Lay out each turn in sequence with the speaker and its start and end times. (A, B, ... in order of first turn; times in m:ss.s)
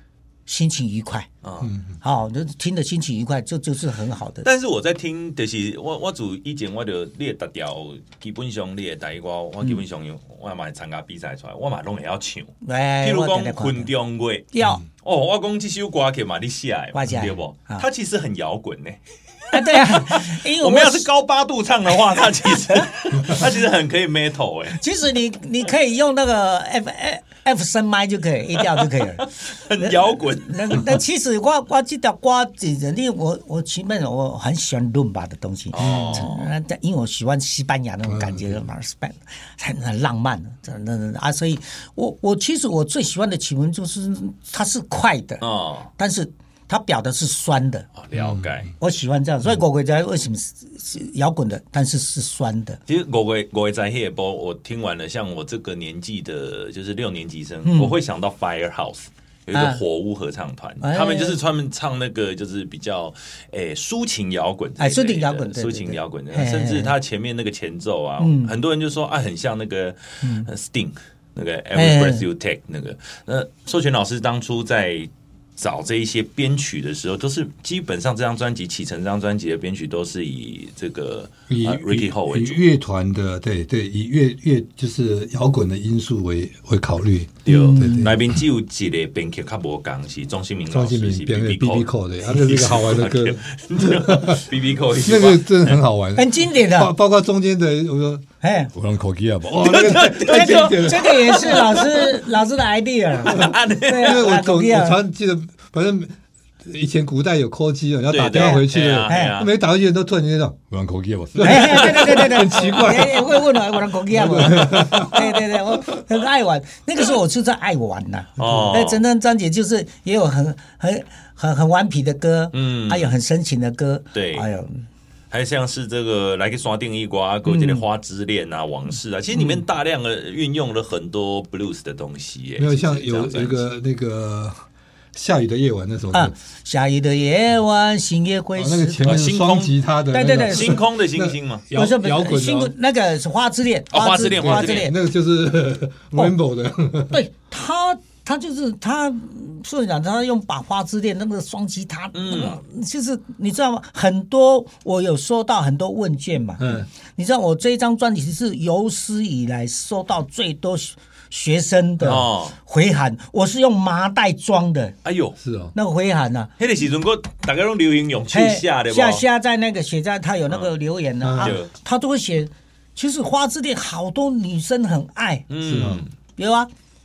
0:00.5-0:01.3 A
0:01.4-0:01.7 B
0:01.6-0:02.0 C
0:02.0-0:04.5 A
0:04.4-0:24.8 B
0:12.6-0:13.9 A
0:14.5-0:14.8 A
0:16.9-0:17.8 A
0:19.5-0:21.1 A
0:21.9-0:23.3 A
0:24.8-0:29.2 A
0:28.8-0:31.0 B
0:29.8-0:45.4 A
0:35.7-0:36.5 B
0:35.8-0:36.3 C
0:38.0-0:38.6 C
0:45.4-0:45.9 B
0:46.0-0:47.9 A
0:48.0-0:48.7 B
0:48.1-0:48.6 C
0:48.8-0:52.8 A
0:52.9-1:22.6 B
0:57.6-0:58.0 A
0:59.5-0:59.8 A
1:00.8-1:01.4 A
1:04.8-1:06.9 A
1:08.2-1:08.5 A
1:10.2-1:10.5 A
1:11.8-1:12.2 A
1:21.5-1:28.4 C
1:27.4-1:35.8 B
1:27.5-1:28.1 A
1:30.7-1:34.4 C
1:35.0-1:41.7 C
1:36.2-1:36.9 A
1:38.4-1:38.7 A
1:39.6-1:41.9 B
1:40.2-1:45.0 A
1:43.2-1:44.2 B
1:43.3-1:46.1 C
1:46.6-1:53.5 C
1:48.1-1:49.5 B
1:48.3-1:49.4 A
1:51.4-2:04.8 A
1:54.1-1:55.8 C
1:58.4-1:58.8 C
1:58.4-1:59.0 B
2:02.5-2:03.1 B
2:04.1-2:04.5 B
2:05.3-2:13.6 B
2:07.4-2:07.8 A
2:09.3-2:09.6 A
2:12.6-2:16.3 C
2:16.1-2:19.0 A
2:18.6-2:22.7 C
2:19.0-2:19.8 B
2:20.1-2:20.8 A
2:20.4-2:21.6 B
2:21.8-2:24.9 A
2:23.9-2:24.9 B
2:24.3-2:27.2 C
2:27.1-2:44.9 A
2:32.1-2:32.6 B
2:36.6-2:36.9 C
2:42.0-2:42.6 B
2:45.0-2:45.4 B
2:45.4-2:45.7 C
2:45.7-2:46.5 A
2:46.6-2:49.2 B
2:48.3-2:55.4 A
2:51.2-2:51.6 C
2:51.4-2:51.7 B
2:55.5-2:56.1 B
2:55.6-2:56.0 C
2:56.4-2:56.7 A